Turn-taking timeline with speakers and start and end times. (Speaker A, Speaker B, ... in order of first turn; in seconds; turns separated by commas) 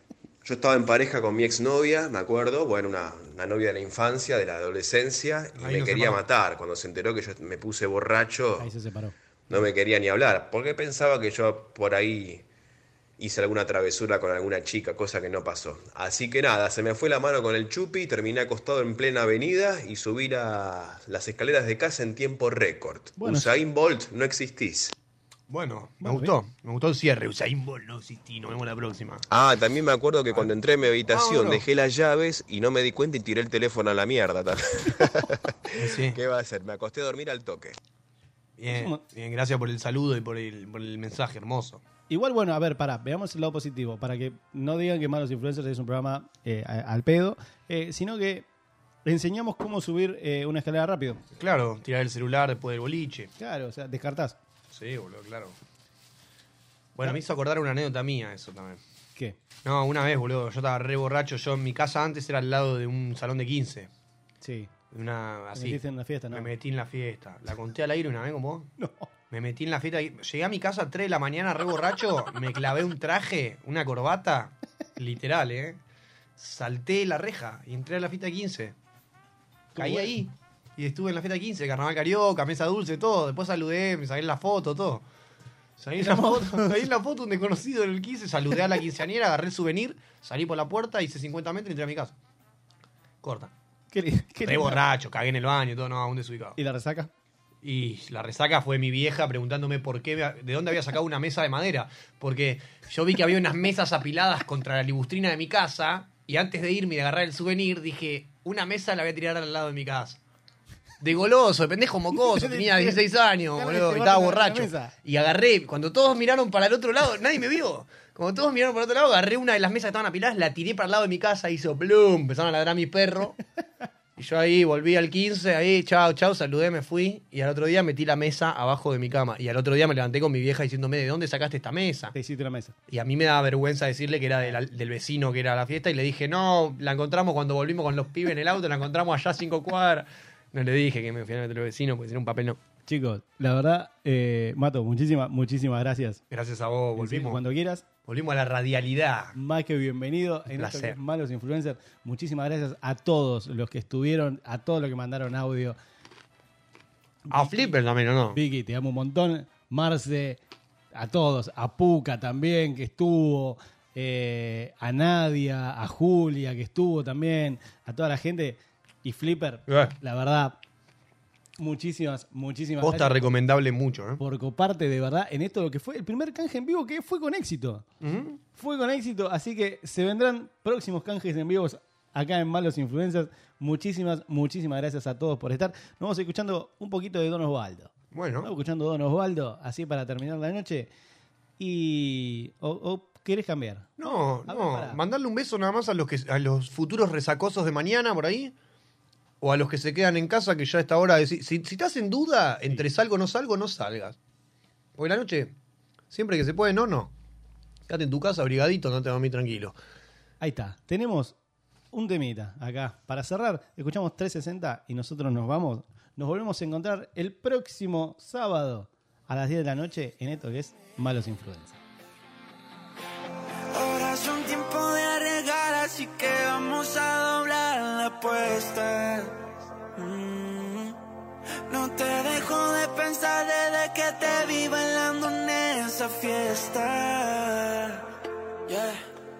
Speaker A: 0.4-8.7, Speaker B: 5.6-6.2, Speaker C: 8.6-9.1, Speaker A: 9.5-12.4, Speaker A: 13.2-24.9, Speaker C: 23.2-23.5, Speaker B: 25.5-29.2, Speaker C: 26.0-26.3, Speaker A: 29.3-37.8, Speaker B: 31.1-31.6, Speaker B: 35.8-36.2, Speaker B: 38.6-41.8, Speaker C: 38.7-39.0, Speaker C: 42.1-48.5, Speaker C: 49.0-51.2, Speaker B: 51.4-53.3, Speaker C: 53.4-54.4, Speaker B: 54.7-55.5, Speaker B: 56.9-58.8, Speaker B: 59.6-63.9, Speaker C: 64.4-64.7, Speaker B: 64.9-65.8, Speaker C: 65.5-66.5, Speaker B: 66.3-68.7, Speaker C: 68.8-69.1, Speaker B: 69.3-75.8, Speaker B: 76.4-78.7, Speaker C: 79.7-80.1, Speaker B: 79.8-85.0, Speaker B: 85.8-92.1, Speaker C: 86.0-86.8, Speaker B: 93.2-93.5, Speaker C: 93.9-94.8, Speaker B: 94.4-96.6, Speaker C: 96.6-97.1, Speaker B: 97.6-110.2, Speaker B: 111.0-123.3, Speaker C: 112.1-114.9, Speaker B: 124.2-132.1, Speaker C: 132.1-132.7, Speaker B: 132.9-142.6, Speaker C: 142.9-146.2, Speaker B: 146.3-147.4, Speaker C: 147.0-147.8, Speaker B: 148.1-149.3, Speaker C: 149.3-155.8, Speaker B: 150.5-150.9, Speaker C: 157.3-157.7, Speaker B: 157.3-158.4, Speaker C: 158.3-160.4, Speaker C: 160.9-170.6, Speaker B: 169.7-169.9, Speaker C: 171.6-173.3, Speaker B: 172.8-174.2, Speaker C: 174.2-177.8, Speaker B: 178.0-178.4, Speaker C: 178.5-190.9, Speaker B: 188.1-188.5, Speaker C: 191.6-195.0, Speaker B: 194.0-198.5, Speaker B: 199.4-204.2, Speaker B: 205.0-205.5, Speaker B: 206.1-207.1, Speaker B: 207.9-209.8, Speaker C: 210.4-211.3, Speaker C: 211.9-221.8, Speaker D: 223.7-229.3, Speaker D: 229.9-230.9, Speaker D: 231.7-238.0, Speaker D: 238.7-239.0